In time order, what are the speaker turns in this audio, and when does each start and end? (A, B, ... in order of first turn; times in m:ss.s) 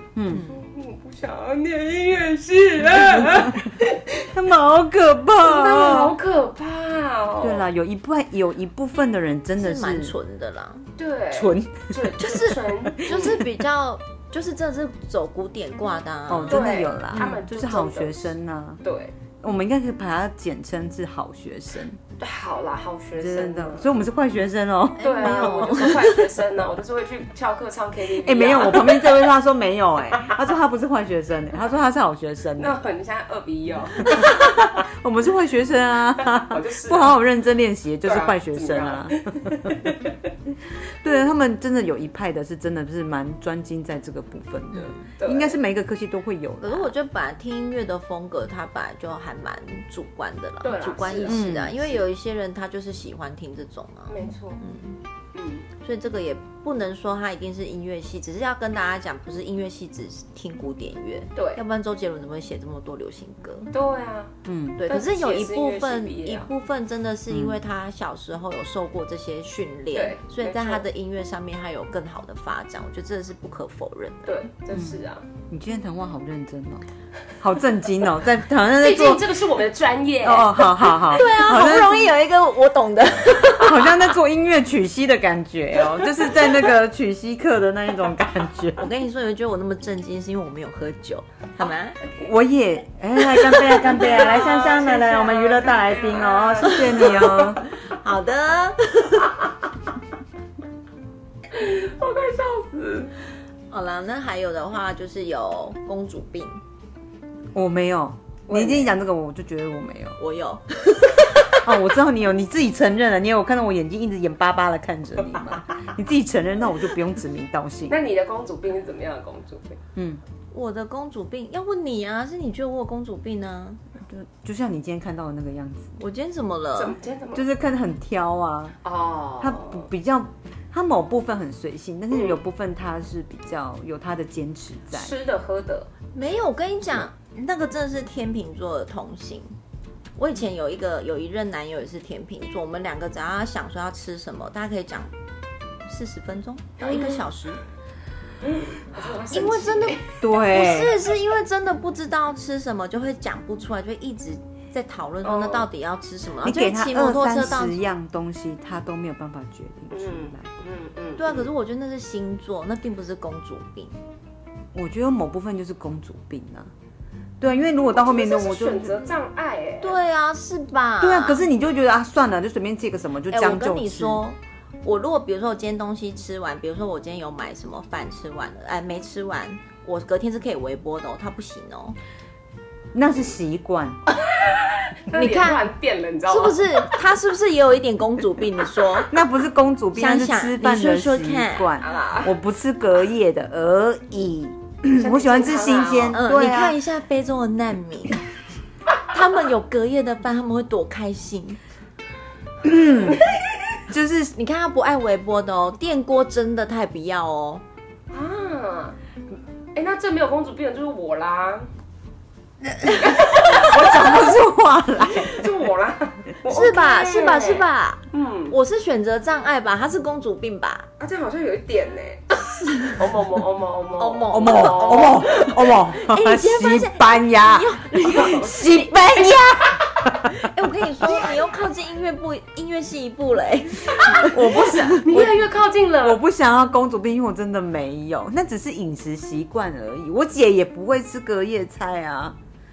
0:00.2-0:00.4 A
0:00.3-0:00.6 B
0:00.5-0:04.3 C
0:02.8-0:03.7 A
0:04.3-0:06.2 A
0:05.4-0:07.6 C
0:07.4-0:10.1 A
0:09.6-0:10.9 B
0:11.0-0:13.4 C
0:11.3-0:12.2 A
0:12.2-0:17.4 B
0:13.0-0:13.4 A
0:16.3-0:18.8 A
0:16.5-0:18.3 C
0:18.8-0:19.2 C
0:19.4-0:22.0 A
0:22.2-0:23.9 C
0:23.2-0:25.9 A
0:25.0-0:26.3 B
0:25.0-0:29.2 C
0:28.1-0:32.8 A
0:32.6-0:34.7 C
0:34.0-0:39.9 A
0:36.3-0:37.2 C
0:38.0-0:40.1 C
0:41.0-0:46.9 A
0:44.7-0:45.0 B
0:45.1-0:45.6 C
0:46.6-0:55.0 B
0:50.6-0:52.0 C
0:51.2-0:51.8 A
0:54.1-0:54.6 C
0:55.3-0:55.7 C
0:55.8-1:03.7 B
1:01.4-1:01.6 C
1:03.7-1:04.4 C
1:04.4-1:04.8 A
1:04.8-1:14.4 B
1:04.9-1:06.5 C
1:07.3-1:07.6 A
1:09.9-1:10.8 C
1:14.3-1:15.2 C
1:15.5-1:16.9 A
1:17.4-1:19.4 A
1:18.8-1:21.0 C
1:20.2-1:22.1 A
1:21.0-1:23.9 B
1:23.6-1:28.8 A
1:28.8-1:32.0 B
1:32.2-1:37.6 A
1:33.6-1:37.5 C
1:36.6-1:39.4 B
1:41.5-1:43.1 C
1:43.7-1:46.6 B
1:47.5-1:50.2 A
1:48.5-1:48.9 C
1:50.2-1:51.6 B
1:51.5-1:58.0 A
1:57.9-1:59.8 C
2:00.0-2:00.2 A
2:00.5-2:03.8 B
2:04.0-2:06.0 A
2:06.0-2:07.0 B
2:06.8-2:07.5 C
2:07.3-2:08.8 A
2:08.8-2:09.9 C
2:09.4-2:15.1 A
2:12.1-2:12.4 C
2:14.9-2:15.9 C
2:16.1-2:19.5 B
2:20.2-2:25.1 B
2:25.9-2:27.6 B
2:26.8-2:27.2 C
2:28.4-2:30.2 C
2:29.3-2:37.8 B
2:30.2-2:31.0 A
2:35.2-2:35.7 C
2:36.4-2:40.5 A
2:39.9-2:41.5 C
2:41.2-2:44.0 B
2:44.7-2:46.7 A
2:47.4-2:49.1 A
2:47.9-2:50.0 C
2:49.8-2:51.4 B
2:51.0-2:54.2 A
2:53.3-3:02.0 B
3:02.9-3:04.0 A
3:04.4-3:06.9 C
3:05.1-3:05.7 B
3:06.3-3:09.1 B
3:09.1-3:16.8 A
3:10.0-3:11.7 B
3:11.8-3:12.3 C
3:15.0-3:16.2 C
3:16.1-3:18.2 B
3:19.1-3:21.6 B
3:22.6-3:23.2 A
3:23.9-3:24.4 A
3:24.4-3:27.6 B
3:28.1-3:29.0 C
3:29.8-3:31.7 C
3:32.8-3:35.6 A
3:32.9-3:34.4 C
3:35.1-3:38.6 C
3:36.5-3:40.9 B
3:41.0-3:45.5 C
3:42.7-3:43.0 B
3:44.0-3:48.8 B
3:44.3-3:50.5 A
3:48.0-3:49.5 C
3:50.3-3:55.0 B
3:54.0-3:56.2 C
3:54.2-3:55.5 A
3:56.0-4:02.4 A